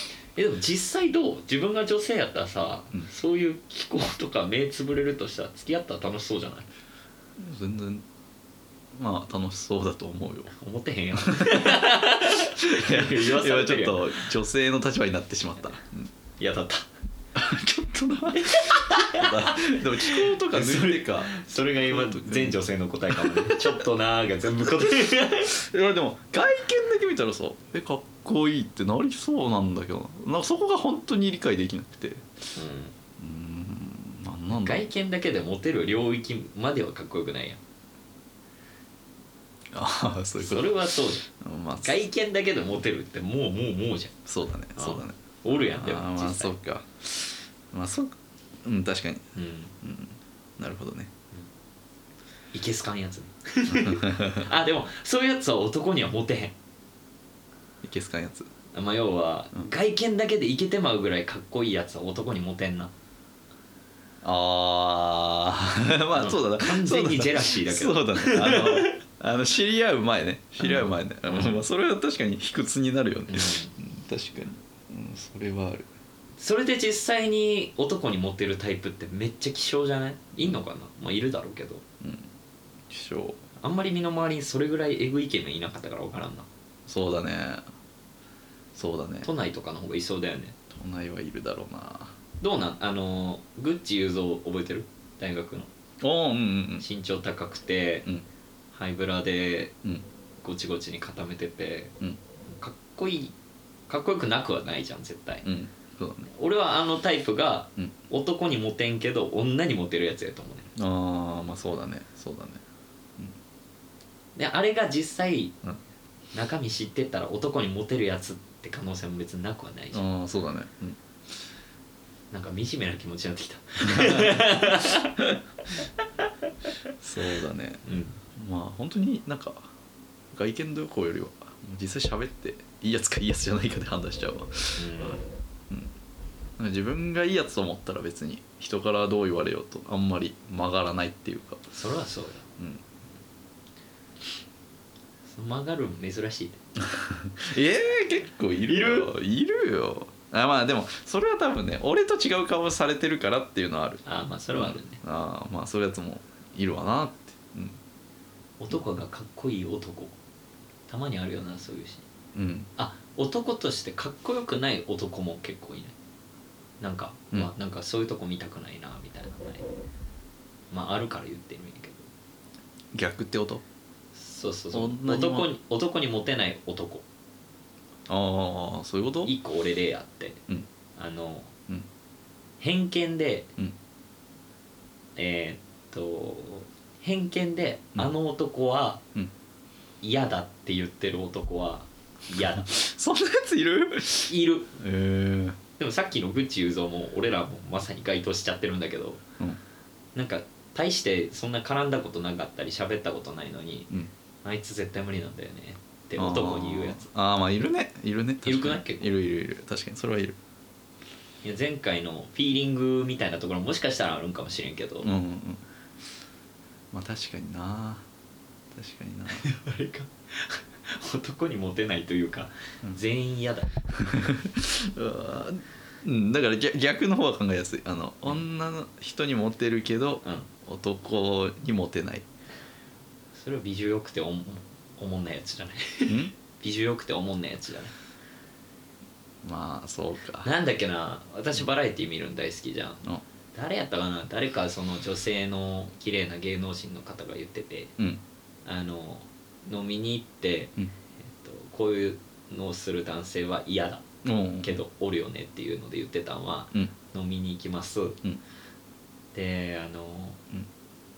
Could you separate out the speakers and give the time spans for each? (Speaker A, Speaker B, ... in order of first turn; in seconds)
Speaker A: 0.4-6.7, 10.6-14.2, 16.4-16.9, 18.4-25.6, 32.5-32.9, 34.5-37.6, 40.4-41.3, 41.8-44.1, 44.8-46.5, 49.4-49.7, 52.5-56.5, 58.7-62.9, 66.1-69.0, 70.6-71.6, 73.3-73.7, 76.4-81.8, 83.6-86.5, 89.2-90.6, 92.4-95.7, 96.8-98.1, 98.7-99.7, 100.4-101.9, 102.5-103.3, 103.9-105.5, 106.3-110.7, 114.4-115.6, 116.3-120.0, 122.3-125.3, 127.8-128.2, 134.8-135.2, 141.7-142.4, 145.3-146.6, 148.7-149.1, 154.1-155.0, 158.6-160.2, 160.9-162.1, 162.8-165.9, 166.8-169.7, 170.7-172.1, 174.2-177.1, 179.2-180.4, 181.0-181.5, 182.6-183.5, 185.2-189.0, 190.0-192.7, 194.3-194.7, 195.8-199.2, 200.2-203.9, 204.4-207.1, 208.4-209.1, 211.4-215.1, 219.3-223.8, 233.3-237.9, 240.4-243.0, 243.5-247.9, 248.7-254.0, 254.6-258.2, 259.3-260.4
Speaker B: 7.4-8.1, 8.9-10.5, 11.2-16.1, 17.4-23.8, 24.6-32.3, 33.2-34.9, 39.7-40.8, 41.3-42.0, 44.3-49.2, 49.8-51.1, 53.7-54.5, 57.8-58.5, 64.2-75.9, 82.0-82.3, 82.9-83.4, 86.9-87.6, 88.8-89.3, 90.7-92.2, 96.0-96.8, 105.5-106.3, 110.8-112.6, 119.9-121.0, 123.8-125.3, 127.0-129.7, 130.3-135.1, 136.6-141.7, 142.6-142.8, 146.8-154.0, 154.5-157.8, 162.3-162.7, 172.9-173.6, 174.7-175.5, 178.1-179.3, 192.4-195.6, 206.2-210.4, 215.0-215.6, 216.9-218.1, 218.7-219.5, 224.0-232.3, 236.1-236.3, 239.4-240.5, 254.2-254.8